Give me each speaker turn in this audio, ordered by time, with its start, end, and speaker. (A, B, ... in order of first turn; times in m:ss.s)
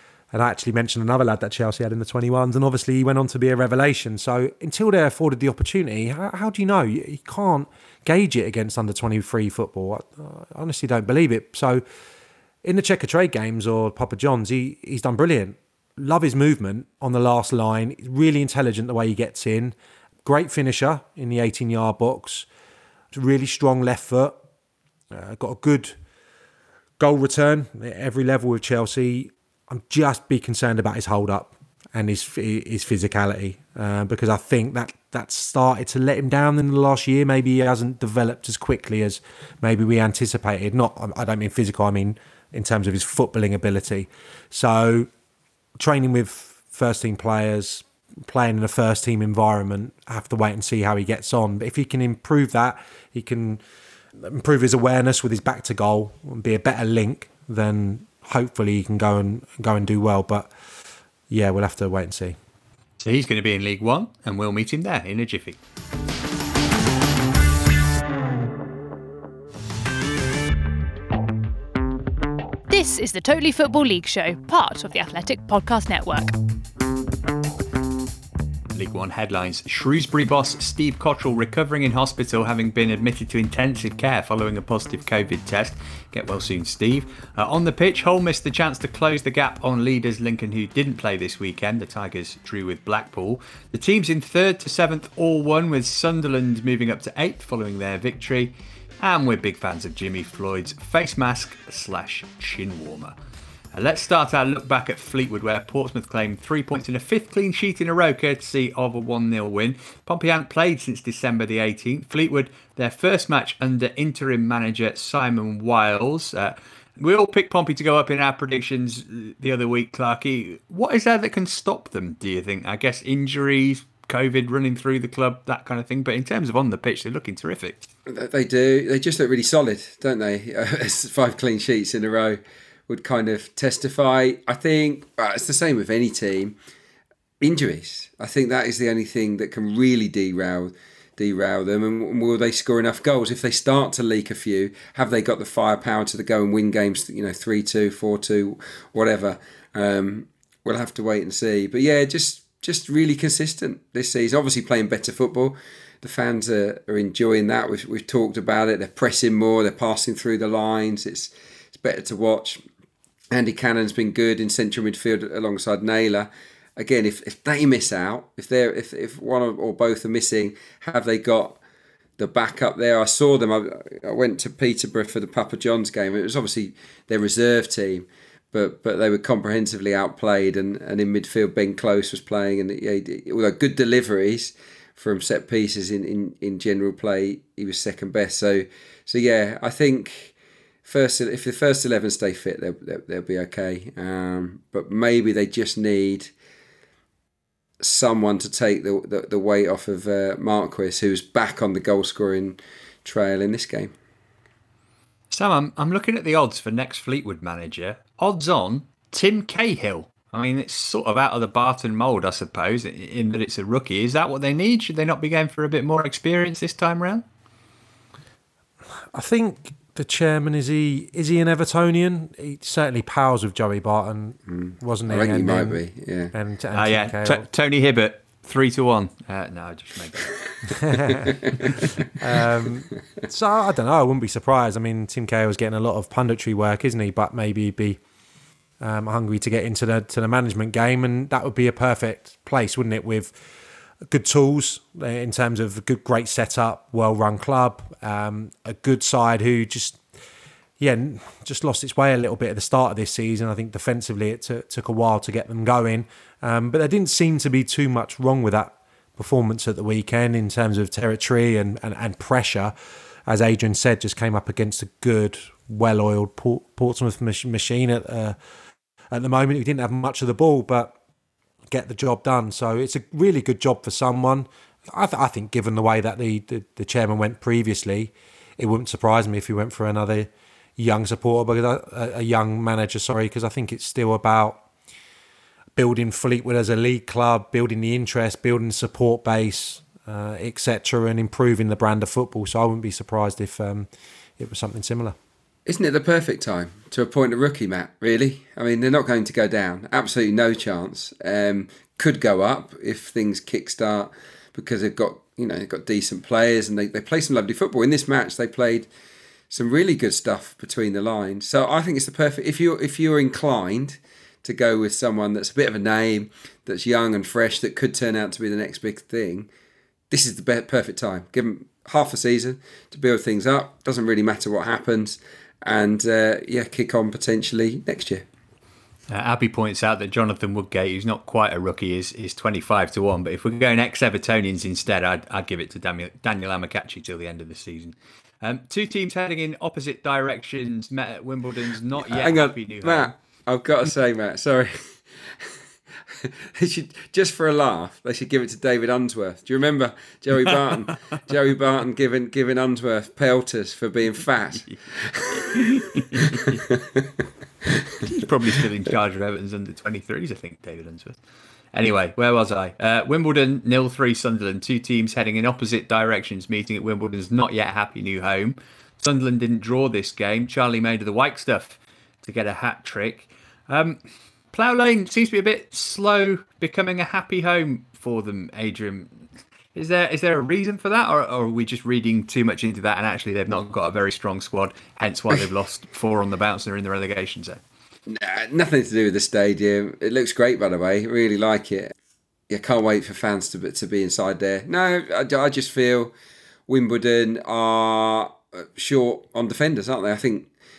0:00.3-0:11.8 A
0:12.6-0:22.5 A
0:23.1-0:24.4 A
0:25.1-0:26.0 A
0:27.0-0:45.1 A
0:45.8-0:53.6 A
0:54.2-1:00.5 A
1:01.3-1:02.4 A
1:03.0-1:05.6 B
1:12.7-1:16.3 C
1:18.7-1:43.2 B
1:43.7-2:07.8 B
2:08.1-2:16.6 D
2:17.4-2:42.6 D
2:43.3-2:51.6 D
2:52.2-3:10.3 D
3:10.8-3:16.3 D
3:17.8-3:23.9 D
3:25.3-3:37.2 B
3:39.1-3:45.8 A
3:44.6-3:46.3 D
3:46.3-3:47.4 A
3:46.7-3:50.4 B
3:50.8-3:51.3 A
3:52.2-3:58.0 A
3:58.8-4:03.4 A
4:04.1-4:10.0 A
4:10.8-4:22.7 A
4:23.3-4:28.4 A
4:29.1-4:31.0 A
4:31.7-4:44.6 A
4:45.8-4:53.9 A
4:54.4-4:55.2 A
4:55.7-5:08.9 D
5:09.5-5:19.5 D
5:20.1-5:28.2 D
5:29.1-5:43.1 B
5:42.1-5:45.0 D
5:46.2-5:56.5 D
5:54.7-5:56.6 B
5:58.0-6:01.2 B
6:01.7-6:14.0 B
6:14.5-6:27.6 B
6:28.1-6:31.9 D
6:32.5-6:36.1 D
6:36.7-6:40.5 D